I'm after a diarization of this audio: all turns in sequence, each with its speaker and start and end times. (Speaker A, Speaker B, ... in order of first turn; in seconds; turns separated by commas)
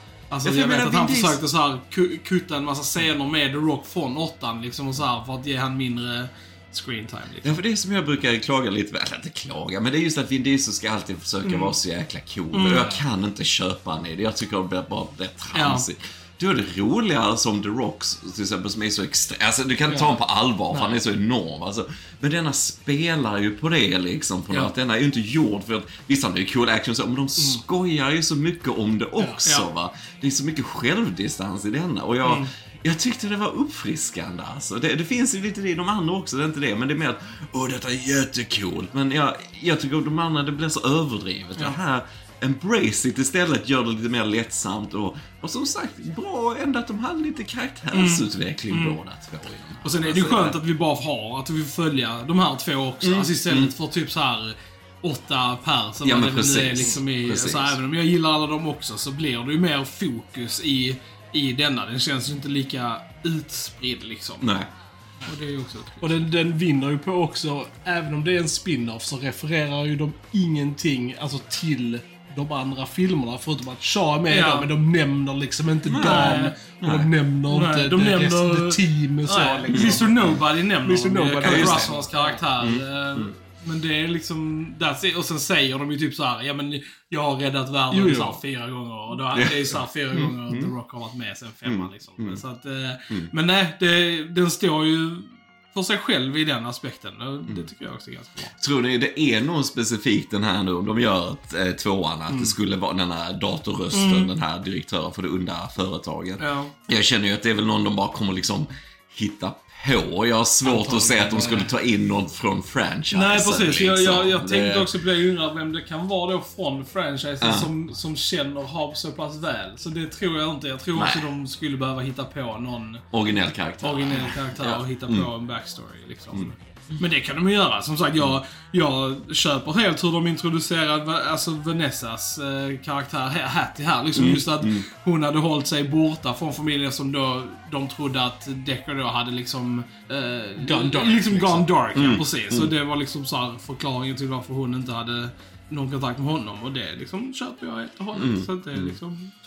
Speaker A: 0.3-7.6, Speaker B: 0.4-1.4, Speaker B: 7.4-50.6, Speaker A: 11.4-11.7, Speaker A: 12.5-13.0, Speaker A: 15.5-15.9, Speaker A: 20.7-21.0, Speaker A: 32.2-32.5, Speaker A: 47.9-49.0, Speaker A: 49.9-64.5, Speaker B: 53.0-53.7, Speaker B: 56.0-57.8, Speaker B: 64.4-64.7, Speaker A: 65.3-66.2, Speaker C: 66.0-82.4, Speaker A: 74.3-74.7, Speaker B: 75.9-77.1, Speaker A: 76.0-76.5, Speaker A: 77.5-98.5, Speaker B: 79.7-80.4, Speaker B: 81.4-82.0, Speaker B: 82.6-83.3, Speaker C: 87.9-88.4, Speaker B: 89.3-90.7, Speaker B: 91.7-92.4, Speaker B: 98.6-114.9, Speaker A: 103.9-104.3, Speaker A: 106.4-106.7, Speaker C: 110.7-111.6, Speaker A: 113.1-123.0, Speaker B: 117.4-117.7, Speaker B: 121.0-121.3, Speaker B: 123.1-125.3, Speaker A: 123.8-149.3, Speaker B: 134.1-134.9, Speaker C: 140.6-141.7, Speaker B: 141.9-142.7, Speaker B: 148.1-149.0